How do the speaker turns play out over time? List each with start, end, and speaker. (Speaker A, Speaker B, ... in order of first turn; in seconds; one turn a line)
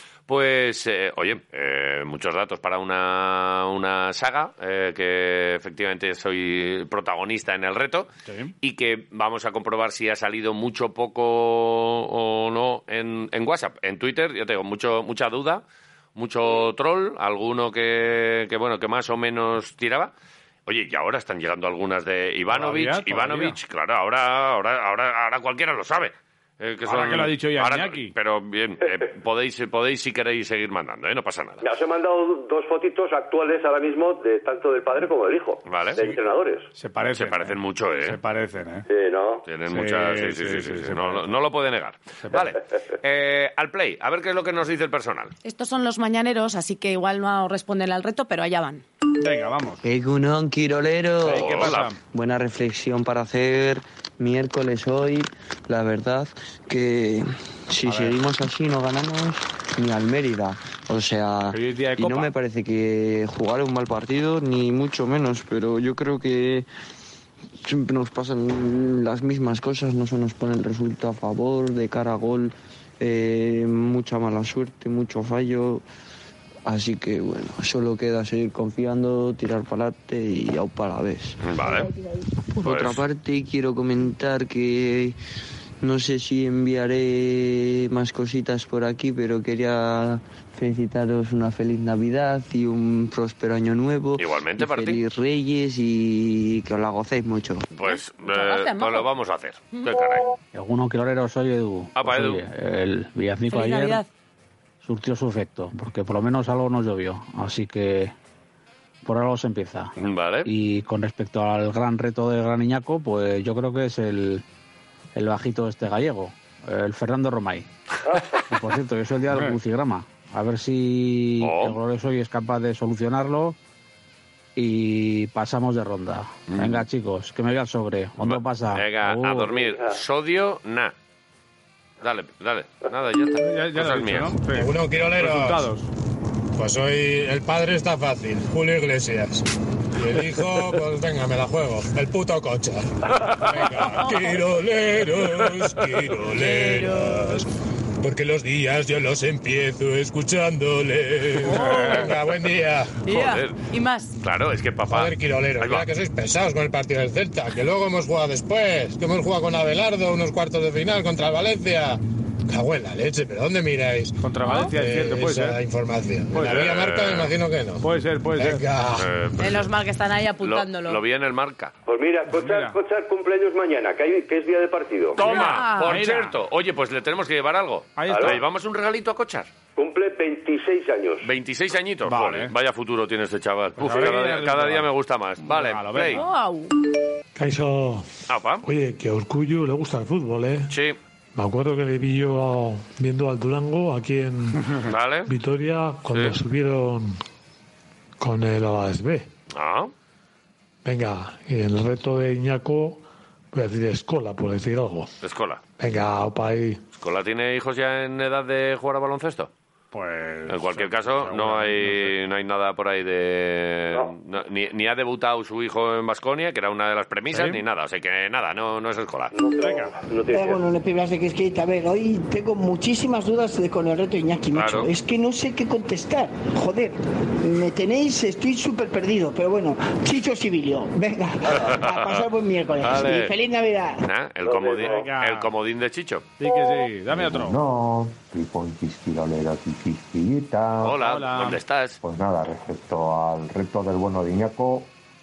Speaker A: 0.3-8.1
Speaker B: 8.3-8.5
Speaker A: 8.6-15.6
Speaker A: 16.2-20.1
Speaker A: 20.7-31.6
Speaker B: 22.5-23.6
Speaker B: 26.9-28.1
Speaker C: 31.6-36.7
Speaker A: 35.7-36.0
Speaker B: 36.8-38.9
Speaker A: 37.1-38.2
Speaker C: 38.9-39.5
Speaker A: 39.5-45.3
Speaker B: 39.7-41.3
Speaker D: 45.5-48.8
Speaker B: 49.2-49.8
Speaker E: 49.8-51.6
Speaker B: 51.2-52.0
Speaker A: 51.2-51.9
Speaker E: 52.1-66.7
Speaker B: 57.9-58.2
Speaker B: 61.5-62.3
Speaker E: 67.6-75.8
Speaker E: 76.7-81.4
Speaker A: 81.4-81.9
Speaker E: 82.5-85.2
Speaker A: 82.6-83.0
Speaker E: 85.8-97.7
Speaker A: 94.2-95.0
Speaker A: 97.8-100.3
Speaker D: 97.9-99.1
Speaker F: 100.5-104.0
Speaker A: 102.0-102.4
Speaker D: 103.5-104.1
Speaker F: 104.8-108.1
Speaker F: 109.0-109.9
Speaker A: 110.0-110.5
Speaker F: 110.5-114.4
Speaker F: 115.2-117.7
Speaker F: 118.5-123.6
Speaker A: 121.4-121.8
Speaker F: 124.6-129.5
Speaker A: 126.5-126.8
Speaker A: 128.2-130.9
Speaker A: 132.0-134.4
Speaker B: 133.4-135.9
Speaker G: 134.5-135.7
Speaker G: 136.6-142.9
Speaker A: 143.1-143.7
Speaker G: 143.4-147.5
Speaker B: 143.5-144.1
Speaker D: 143.8-144.3
Speaker A: 145.2-145.9
Speaker D: 146.7-147.4
Speaker G: 148.0-153.0
Speaker B: 151.5-152.1
Speaker D: 153.1-154.2
Speaker A: 153.1-153.7
Speaker A: 154.2-155.9
Speaker G: 154.9-169.1
Speaker B: 164.2-165.6
Speaker B: 166.3-166.7
Speaker A: 166.4-167.3
Speaker B: 167.8-168.6
Speaker A: 168.9-169.7
Speaker D: 169.4-171.0
Speaker A: 170.4-171.7
Speaker C: 171.9-175.2
Speaker B: 172.3-172.8
Speaker A: 175.2-179.5
Speaker B: 175.2-176.4
Speaker D: 175.4-176.0
Speaker B: 178.0-178.4
Speaker C: 178.1-178.4
Speaker C: 179.8-181.3
Speaker A: 181.2-186.2
Speaker B: 182.1-182.5
Speaker B: 183.8-184.9
Speaker B: 185.4-186.3
Speaker D: 186.1-186.7
Speaker H: 187.3-188.1
Speaker A: 188.3-188.7
Speaker H: 188.6-190.7
Speaker A: 190.7-191.0
Speaker H: 191.3-194.6
Speaker A: 194.8-195.3
Speaker H: 195.3-197.2
Speaker H: 198.2-199.3
Speaker A: 199.5-199.9
Speaker H: 200.8-205.1
Speaker A: 205.2-205.6
Speaker H: 205.8-206.8
Speaker A: 206.9-209.5
Speaker B: 209.9-212.1
Speaker A: 210.5-219.3
Speaker B: 217.3-217.6
Speaker C: 219.3-220.6
Speaker B: 219.6-219.9
Speaker I: 220.3-234.1
Speaker A: 224.5-224.9
Speaker A: 231.5-232.2
Speaker A: 232.8-233.4
Speaker A: 234.0-236.2
Speaker C: 234.4-235.1
Speaker B: 234.8-235.5
Speaker B: 236.4-237.6
Speaker J: 237.1-241.0
Speaker A: 240.8-242.0
Speaker B: 241.0-241.6
Speaker J: 242.0-244.9